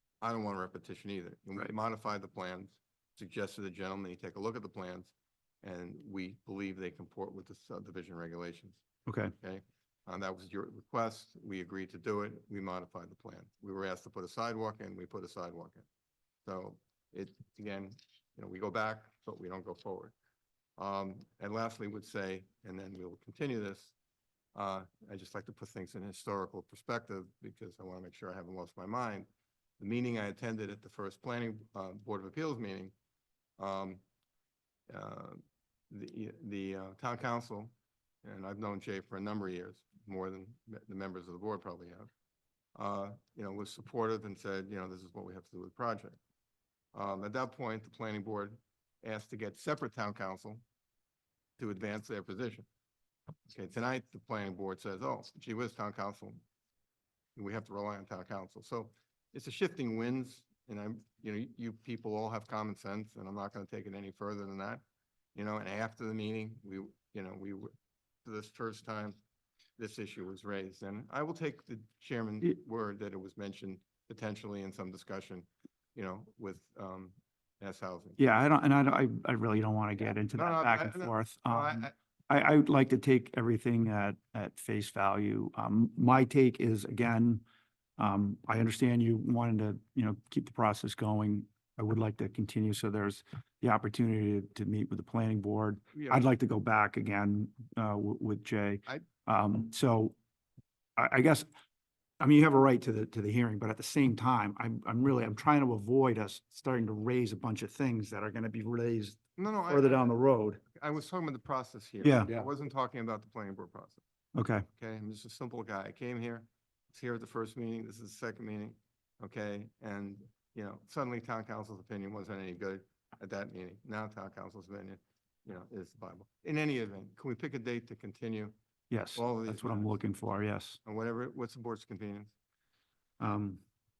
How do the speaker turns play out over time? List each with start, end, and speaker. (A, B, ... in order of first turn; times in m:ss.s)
0:00.2-0:08.8 A
0:09.1-0:09.3 B
0:09.4-0:15.8 A
0:16.4-0:20.1 A
0:20.8-0:23.9 A
0:24.5-0:29.3 A
0:29.8-0:32.9 A
0:33.6-0:34.0 A
0:34.9-0:42.1 A
0:42.7-0:46.2 A
0:46.9-0:50.6 A
0:51.6-0:52.7 A
0:53.5-0:56.4 A
0:57.4-1:04.8 A
1:05.3-1:07.7 A
1:08.2-1:09.2 A
1:09.8-1:18.2 A
1:18.2-1:27.4 B
1:20.0-1:21.9 A
1:28.0-1:40.1 B
1:35.9-1:36.3 A
1:41.0-1:41.5 B
1:42.2-1:50.6 B
1:49.4-1:50.1 A
1:50.7-1:54.0 A
1:52.0-1:52.4 B
1:54.3-1:54.6 B
1:54.8-2:08.5 A
2:08.9-2:10.8 B
2:09.1-2:10.0 A
2:10.8-2:12.3 A
2:13.2-2:13.6 B